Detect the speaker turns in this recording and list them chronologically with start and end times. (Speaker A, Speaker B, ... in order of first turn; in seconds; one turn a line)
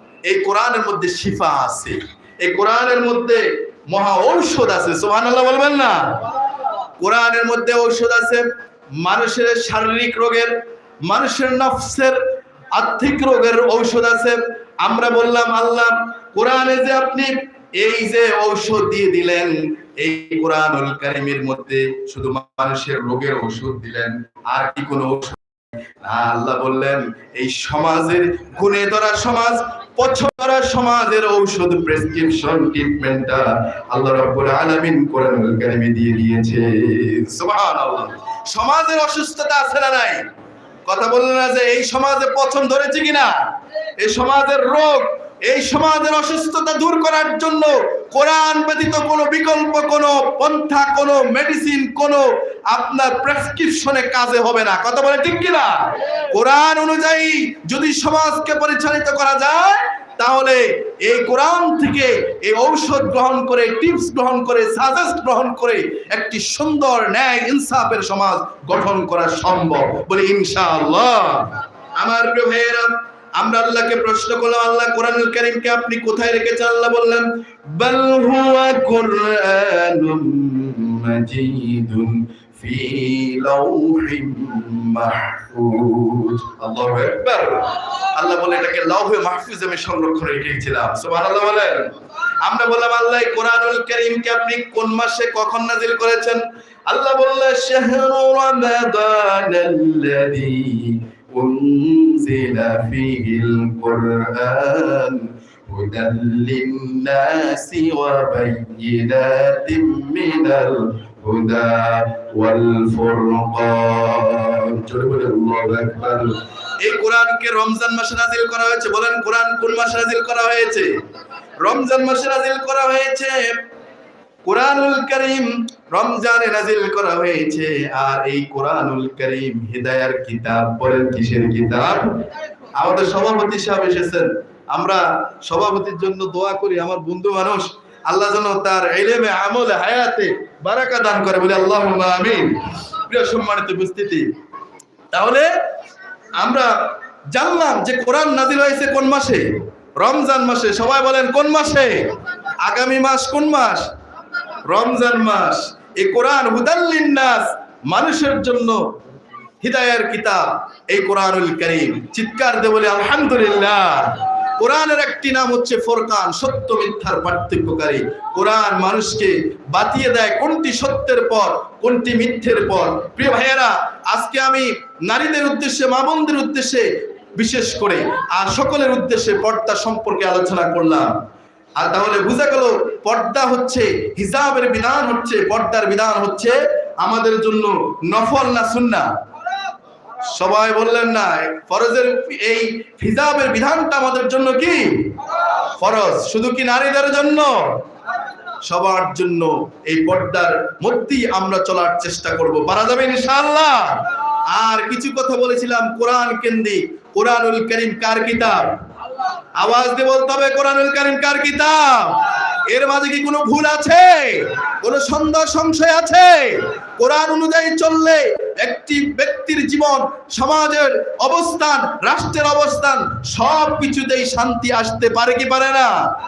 Speaker A: 0.3-6.0
Speaker A: 7.0-8.4
Speaker A: 9.0-10.5
Speaker A: 11.1-12.2
Speaker A: 12.8-25.4
Speaker A: 26.1-40.2
Speaker A: 40.9-43.3
Speaker A: 44.0-55.7
Speaker A: 56.3-77.2
Speaker A: 77.8-91.8
Speaker A: 92.4-120.9
Speaker A: 121.6-123.5
Speaker A: 124.4-132.1
Speaker A: 132.8-144.2
Speaker A: 145.1-145.5
Speaker A: 146.4-146.7
Speaker A: 147.3-149.4
Speaker A: 150.0-152.1
Speaker A: 152.6-153.8
Speaker A: 154.7-158.8
Speaker A: 159.6-176.9
Speaker A: 177.4-181.1
Speaker A: 181.8-189.1
Speaker A: 190.3-194.8
Speaker A: 195.8-197.5
Speaker A: 198.7-204.0
Speaker A: 204.5-208.6
Speaker A: 209.6-225.9